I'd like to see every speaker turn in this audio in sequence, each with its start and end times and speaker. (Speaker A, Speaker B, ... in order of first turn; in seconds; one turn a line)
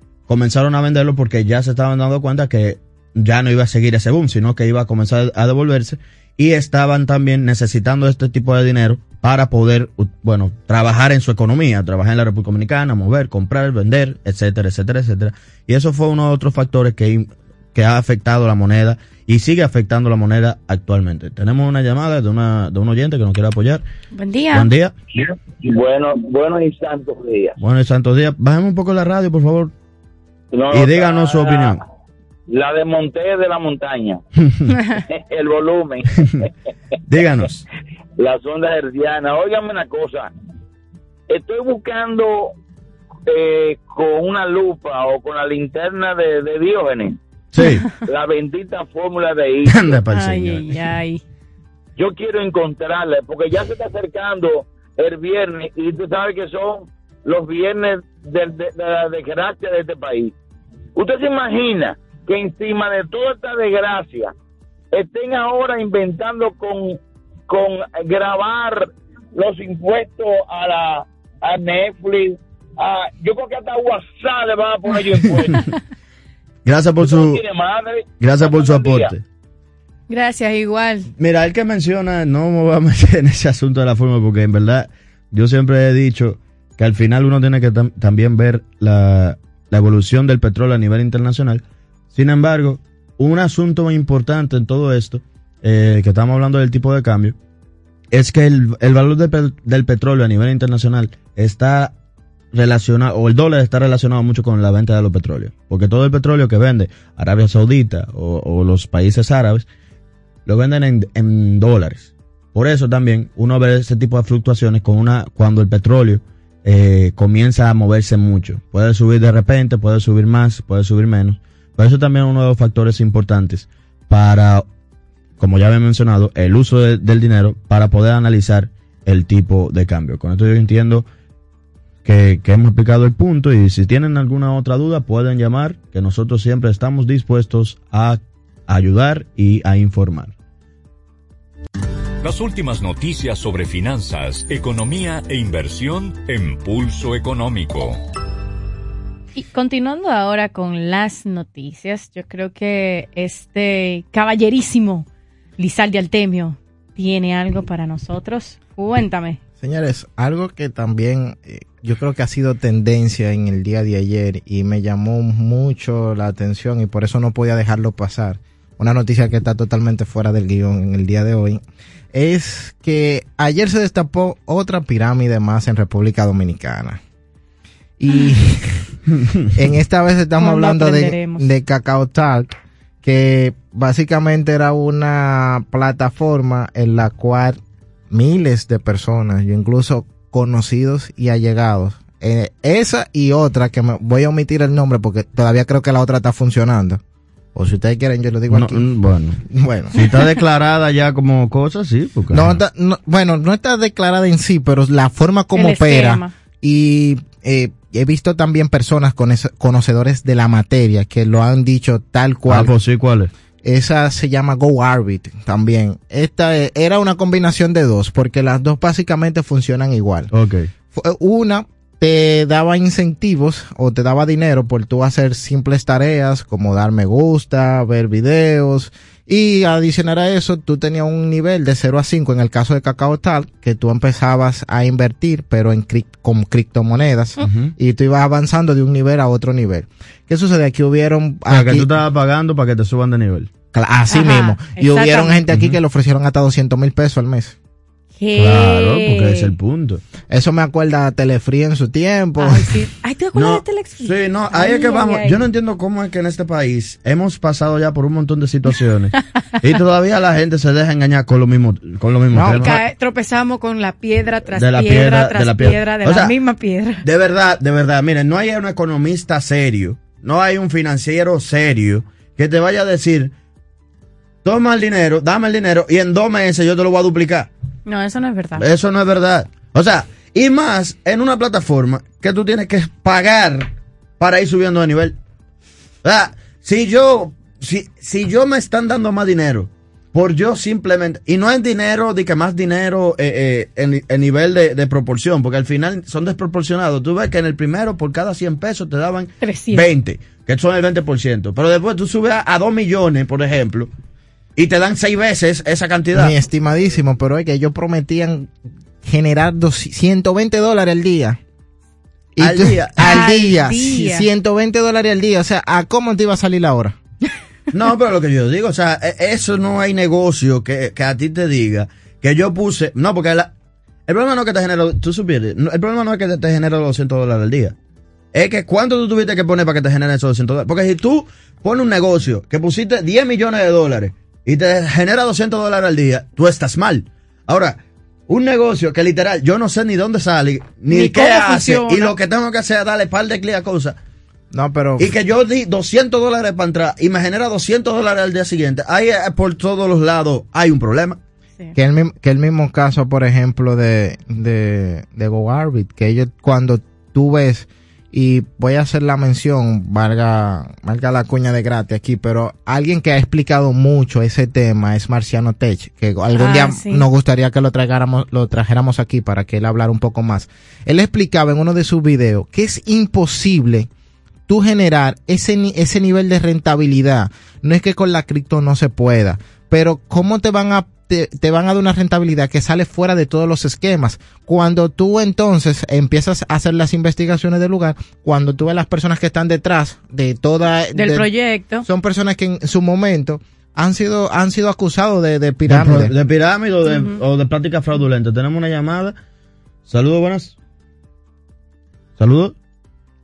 Speaker A: 0.3-23.8
Speaker B: 24.1-24.7
Speaker A: 24.5-24.9
Speaker C: 25.1-27.6
Speaker A: 27.6-29.7
Speaker C: 30.5-31.8
Speaker A: 30.7-31.8
Speaker C: 32.5-34.2
Speaker B: 34.7-35.0
Speaker C: 35.1-36.2
Speaker A: 37.1-37.6
Speaker C: 38.2-40.3
Speaker C: 41.3-42.5
Speaker C: 43.3-47.2
Speaker A: 47.5-47.9
Speaker C: 48.0-50.0
Speaker A: 49.7-50.7
Speaker B: 50.1-51.2
Speaker C: 52.0-60.3
Speaker C: 61.0-64.3
Speaker C: 64.9-67.0
Speaker C: 67.5-75.6
Speaker A: 76.6-77.4
Speaker C: 77.0-79.1
Speaker A: 78.2-79.2
Speaker B: 80.1-81.1
Speaker A: 81.2-97.3
Speaker A: 98.1-101.9
Speaker A: 102.5-109.7
Speaker A: 110.5-124.7
Speaker A: 125.4-131.1
Speaker A: 132.0-140.3
Speaker D: 142.2-148.0
Speaker B: 149.3-155.1
Speaker B: 155.6-159.4
Speaker E: 159.6-171.6
Speaker E: 172.1-177.0
Speaker E: 178.0-178.9
Speaker A: 179.1-179.5
Speaker E: 179.5-197.0
Speaker B: 180.4-181.5
Speaker E: 197.5-198.8
Speaker A: 198.5-199.4
Speaker E: 199.4-199.9
Speaker A: 199.9-202.6
Speaker E: 202.3-212.7
Speaker B: 205.5-206.3
Speaker A: 212.5-213.3
Speaker E: 213.6-220.3
Speaker A: 220.3-220.7
Speaker E: 220.9-241.9
Speaker A: 237.4-237.7
Speaker A: 241.5-243.5
Speaker E: 243.7-247.5
Speaker B: 244.1-245.4
Speaker A: 245.5-245.8
Speaker B: 248.2-249.5
Speaker A: 248.3-250.0
Speaker E: 250.3-252.7
Speaker B: 252.4-255.4
Speaker A: 253.3-262.8
Speaker E: 262.3-262.7
Speaker B: 262.5-267.0
Speaker A: 264.5-266.3
Speaker A: 267.0-273.3
Speaker A: 274.4-277.5
Speaker B: 277.9-278.6
Speaker A: 278.6-285.2
Speaker A: 286.0-303.9
Speaker B: 299.4-299.9
Speaker A: 304.6-306.3
Speaker E: 306.1-308.5
Speaker E: 309.0-311.4
Speaker E: 312.3-317.0
Speaker A: 312.4-313.2
Speaker B: 313.0-314.3
Speaker A: 317.7-323.5
Speaker A: 324.1-327.7
Speaker A: 328.3-344.0
Speaker B: 340.9-342.1
Speaker E: 344.5-345.1
Speaker A: 345.0-351.2
Speaker E: 351.7-373.9
Speaker B: 366.4-367.1
Speaker E: 374.5-391.3
Speaker B: 390.9-391.9
Speaker E: 391.8-396.1
Speaker A: 395.7-399.1
Speaker B: 396.9-397.2
Speaker A: 399.9-400.5
Speaker A: 402.2-402.5